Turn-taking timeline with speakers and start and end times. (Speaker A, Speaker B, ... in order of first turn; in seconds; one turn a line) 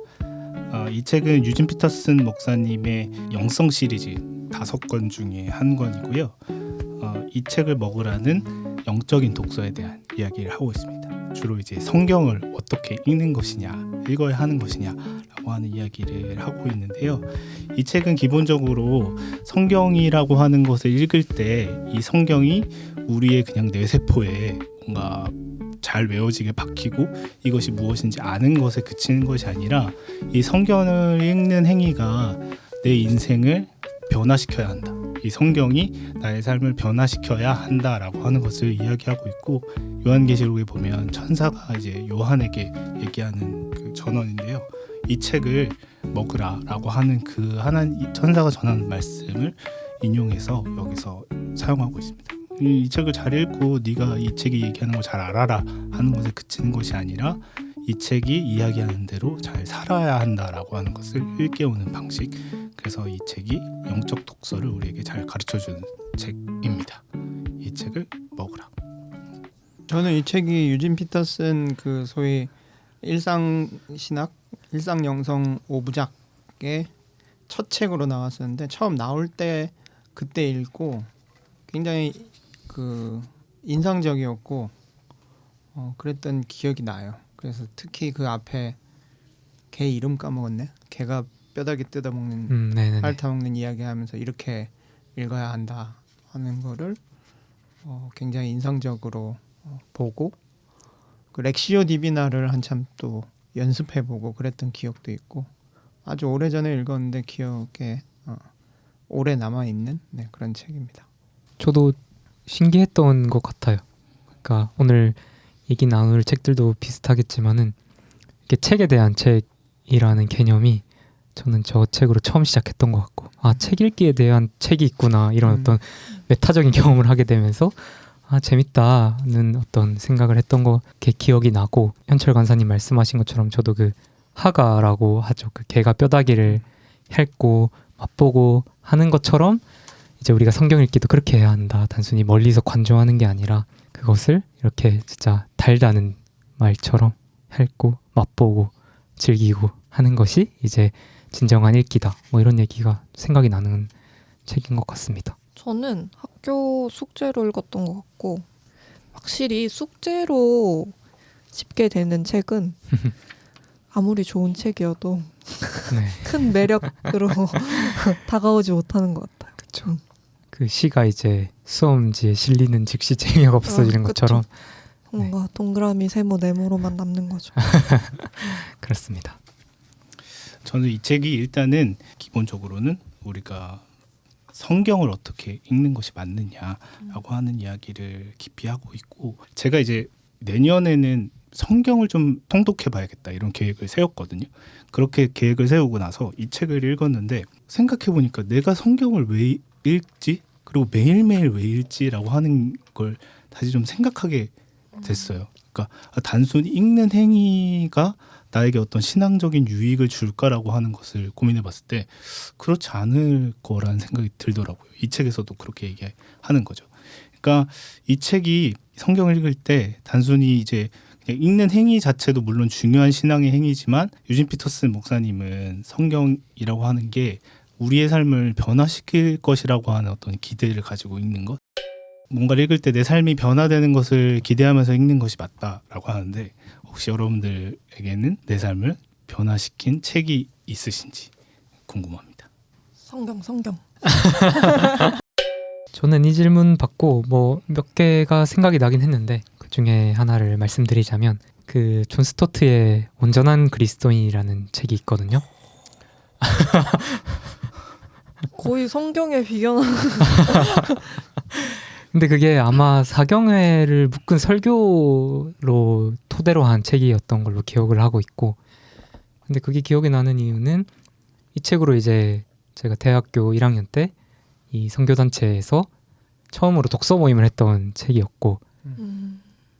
Speaker A: 0.7-6.4
Speaker A: 6.9-67.0
Speaker A: 67.6-68.7
Speaker B: 69.9-76.9
Speaker B: 77.5-81.1
Speaker B: 81.7-84.7
Speaker B: 85.7-88.8
Speaker B: 89.7-97.0
Speaker C: 92.5-93.2
Speaker B: 97.8-100.4
Speaker B: 101.3-105.5
Speaker B: 106.0-108.5
Speaker B: 109.1-111.0
Speaker C: 111.6-113.8
Speaker C: 114.4-117.7
Speaker C: 118.5-120.8
Speaker C: 121.3-139.6
Speaker B: 125.4-125.8
Speaker C: 140.2-153.9
Speaker C: 154.5-155.3
Speaker D: 155.6-158.4
Speaker D: 159.1-160.9
Speaker D: 161.5-162.8
Speaker D: 163.9-170.0
Speaker C: 165.9-166.3
Speaker C: 169.7-169.9
Speaker C: 170.5-174.5
Speaker D: 173.6-174.4
Speaker D: 175.1-177.8
Speaker C: 177.7-179.4
Speaker A: 180.6-183.8
Speaker A: 184.5-231.6
Speaker A: 232.3-241.3
Speaker A: 241.9-242.5
Speaker D: 243.0-243.8
Speaker C: 244.3-244.7
Speaker C: 245.9-255.4
Speaker C: 256.4-257.2
Speaker D: 258.5-261.1
Speaker C: 262.1-268.6
Speaker C: 269.5-270.9
Speaker C: 271.5-274.1
Speaker C: 274.7-275.9
Speaker C: 276.5-278.6
Speaker D: 278.9-279.4